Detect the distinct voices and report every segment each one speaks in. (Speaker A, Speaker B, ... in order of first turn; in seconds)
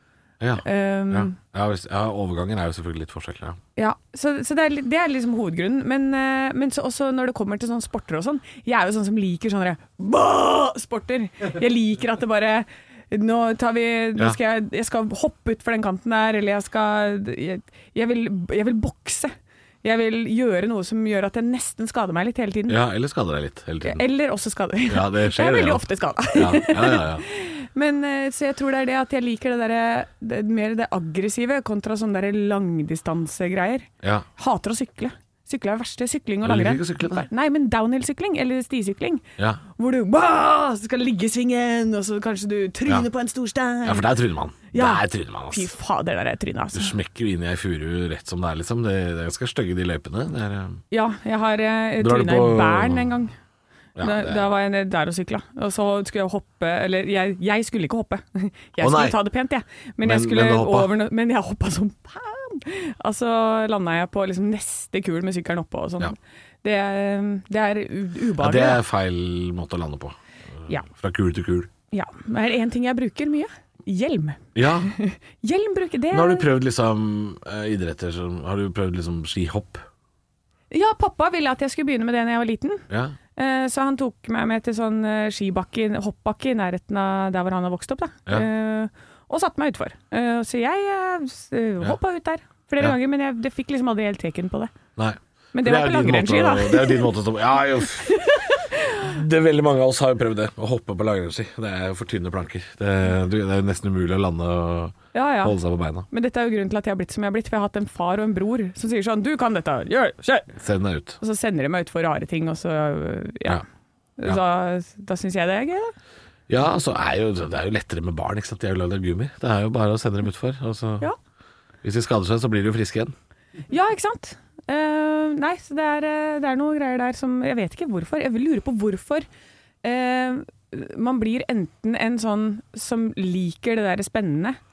Speaker A: 0.4-3.6, 22.7-24.0, 24.9-25.8, 26.3-27.2, 36.4-37.2, 43.8-45.7, 46.7-50.8, 52.0-53.1, 54.0-54.5, 58.8-59.2, 60.0-60.9, 68.4-71.7, 74.5-74.9, 76.1-79.8, 82.9-83.1, 95.0-98.2, 99.0-106.1, 110.5-111.2, 116.5-121.1, 121.8-123.1
Speaker B: 0.6-1.4, 3.8-22.8, 23.8-39.2, 39.8-44.1, 44.7-46.9, 50.9-53.3, 54.0-68.8, 71.9-76.5, 80.7-82.8, 83.3-94.7, 95.5-97.1, 97.8-99.1, 105.1-105.5, 106.1-110.5, 111.2-113.6, 114.2-115.9, 123.7-129.2, 129.8-134.6